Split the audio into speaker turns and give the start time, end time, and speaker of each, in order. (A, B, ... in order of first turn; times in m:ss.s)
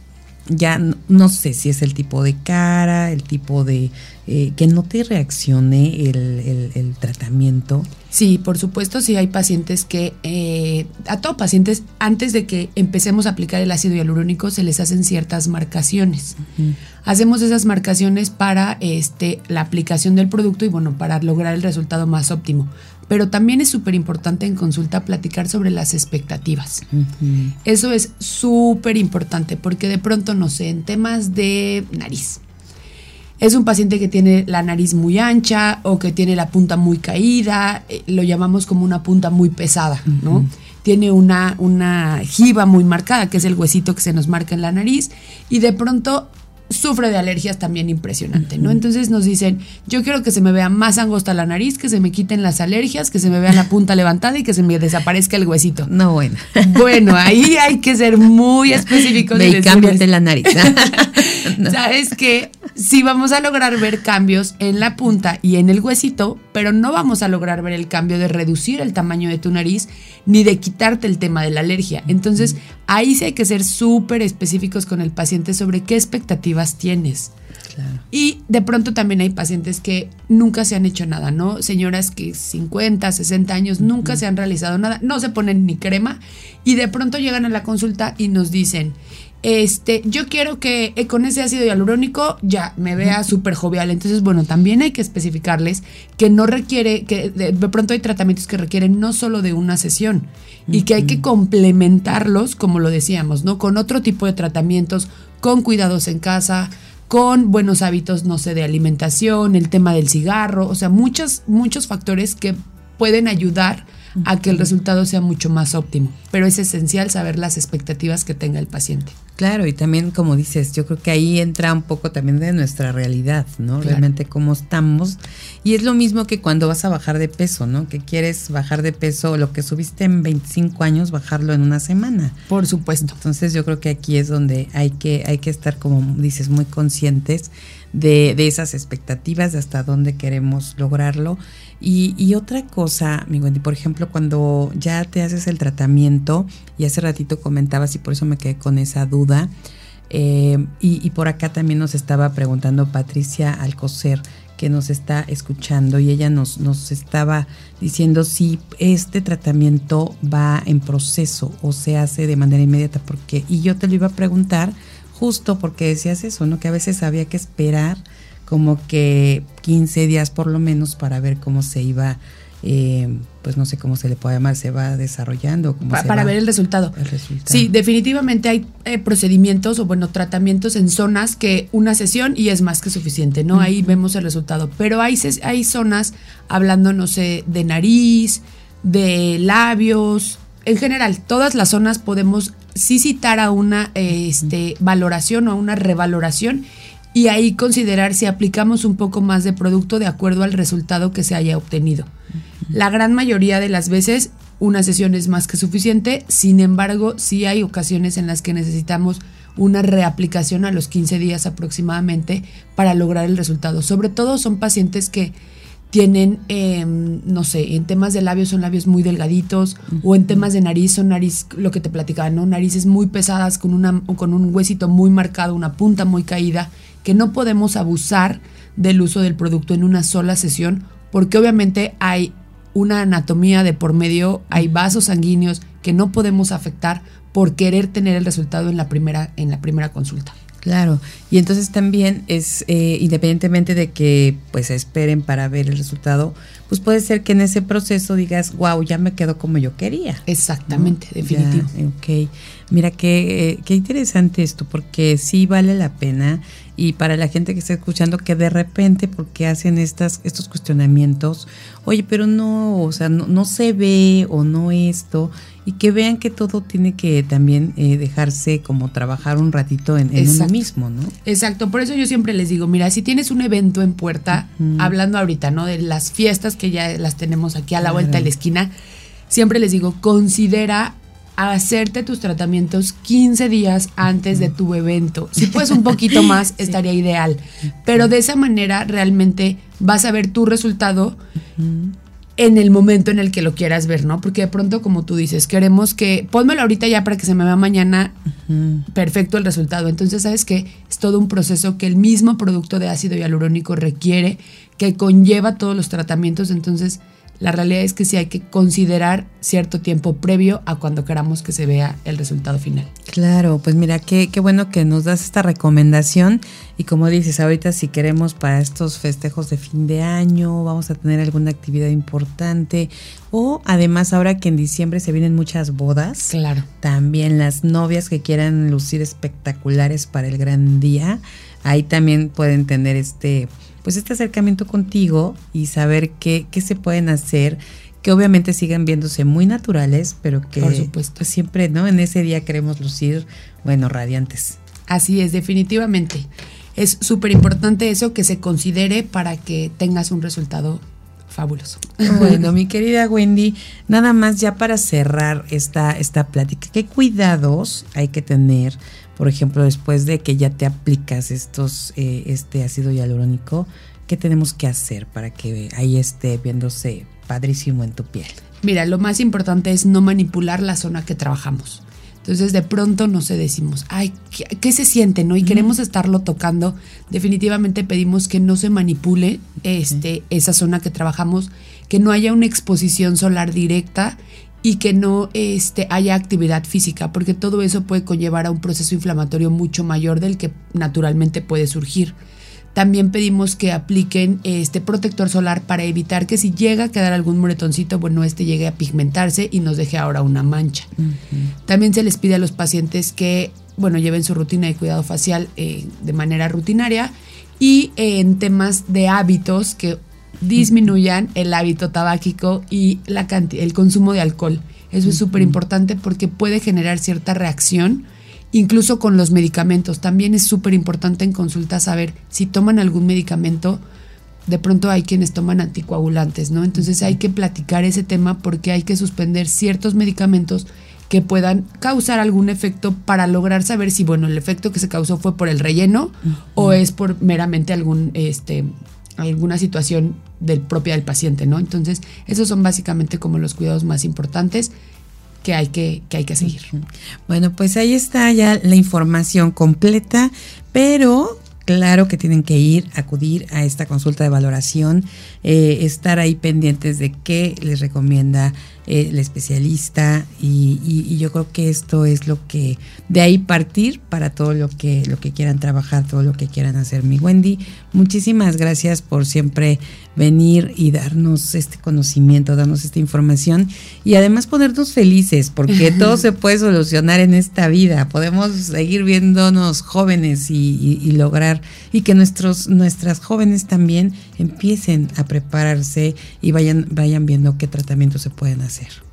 0:00.5-0:07.9 A
0:08.1-0:16.4 B
0:17.0-0:26.8 B
0:26.9-0:27.5 A
0:27.6-0:32.4 B
0:33.4-0:55.9 B
0:55.9-0:57.1 A
0:56.6-1:17.3 B
0:59.0-1:01.8 A
1:17.7-1:18.0 A
1:18.1-1:59.2 B
1:40.7-1:41.2 A
1:54.2-1:54.7 A
1:59.4-2:12.4 A
2:12.5-2:13.2 B
2:13.2-2:29.5 A
2:30.1-2:56.4 A
2:55.9-3:22.1 B
2:57.0-2:57.7 A
3:03.5-3:03.9 A
3:22.7-3:35.3 B
3:35.9-4:00.4 B
4:00.6-4:31.1 A
4:10.3-4:11.7 B
4:30.2-4:30.6 B
4:31.2-4:38.7 B
4:34.4-4:34.9 A
4:37.8-4:38.3 A
4:39.3-4:51.2 B
4:51.6-4:52.0 A
4:52.4-4:58.2 B
4:58.4-4:58.8 A
4:58.9-5:12.9 B
5:13.1-5:44.6 A
5:26.3-5:26.7 B
5:40.6-5:41.2 B
5:44.9-5:52.4 B
5:52.0-6:08.4 A
6:08.6-6:32.2 B
6:15.4-6:15.7 A
6:32.7-6:40.9 B
6:41.0-6:41.5 A
6:41.6-7:03.8 B
6:55.1-6:55.5 A
7:04.5-7:24.7 B
7:25.4-7:26.7 B
7:26.7-8:09.0 A